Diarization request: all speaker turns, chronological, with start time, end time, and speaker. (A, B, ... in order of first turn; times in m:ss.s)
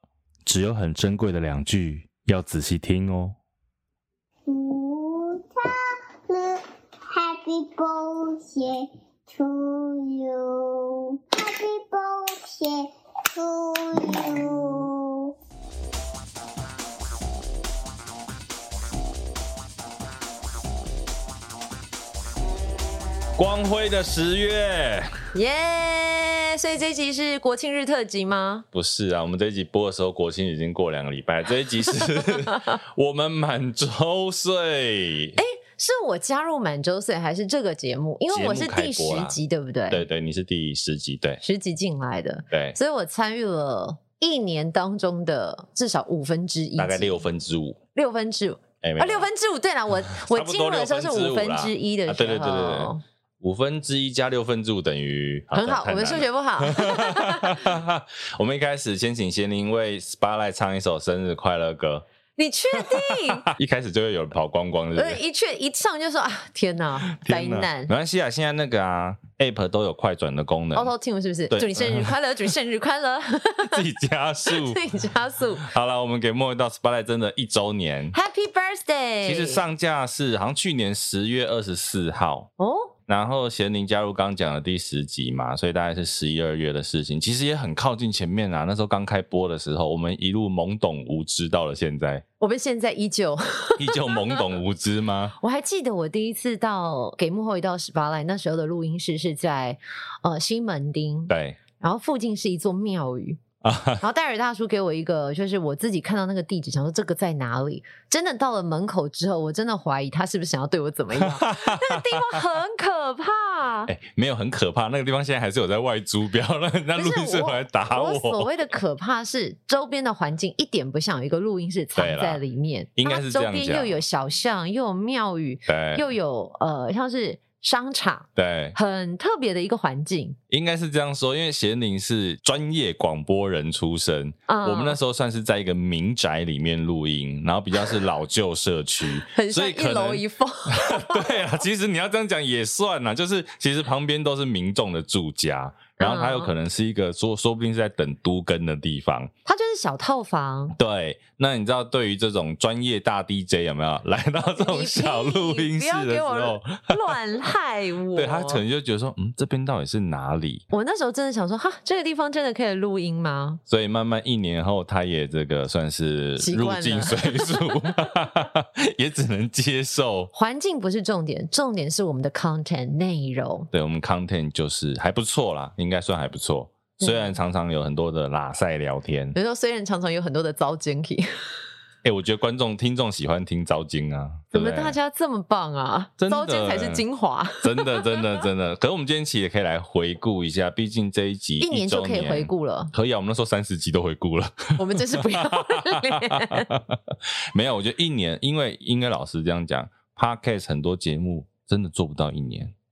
0:00.4-0:03.4 A
0:04.5-0:15.4 B
0:23.4-0:25.1 A
0:25.3-0:28.7 C
0:28.7-0:35.4 A
0:35.4-0:40.0 C
0:38.3-0:39.4 A
0:39.9-0:41.4 A
0:41.4-0:47.2 C
0:42.5-0:42.8 A
0:46.8-0:47.8 A
0:48.0-0:53.0 C
0:48.8-0:49.3 A
0:50.1-1:02.0 A
0:55.5-0:57.7 C
1:02.4-1:03.5 C
1:02.9-1:05.2 A
1:05.0-1:07.9 C
1:07.1-1:10.9 A
1:10.7-1:13.8 C
1:11.5-1:12.1 A
1:13.6-1:14.8 A
1:14.5-1:15.6 C
1:15.6-1:18.2 A
1:18.1-1:19.6 C
1:19.2-1:22.5 A
1:22.6-1:22.9 C
1:23.1-1:32.2 A
1:32.4-1:34.4 C
1:33.8-1:35.4 A
1:35.4-1:43.4 C
1:41.3-1:41.6 A
1:43.6-1:44.0 A
1:44.0-1:53.9 C
1:51.2-1:52.4 A
1:53.9-1:58.5 A
1:57.0-2:10.4 C
2:02.0-2:02.4 A
2:03.0-2:04.0 A
2:05.7-2:06.0 A
2:08.4-2:08.8 A
2:10.5-2:29.3 A
2:14.5-2:15.0 C
2:19.3-2:21.4 C
2:26.0-2:26.5 C
2:29.5-2:30.8 C
2:30.8-2:37.0 A
2:34.4-2:38.6 C
2:38.2-2:40.7 A
2:40.7-2:43.6 C
2:43.7-2:50.3 A
2:46.4-2:48.0 C
2:50.3-2:53.7 C
2:53.7-2:59.4 A
2:57.0-2:57.4 C
2:59.3-3:01.3 C
3:02.0-3:05.0 A
3:04.5-3:08.4 C
3:06.2-3:07.0 A
3:07.6-3:22.7 A
3:11.6-3:12.9 C
3:14.8-3:16.7 C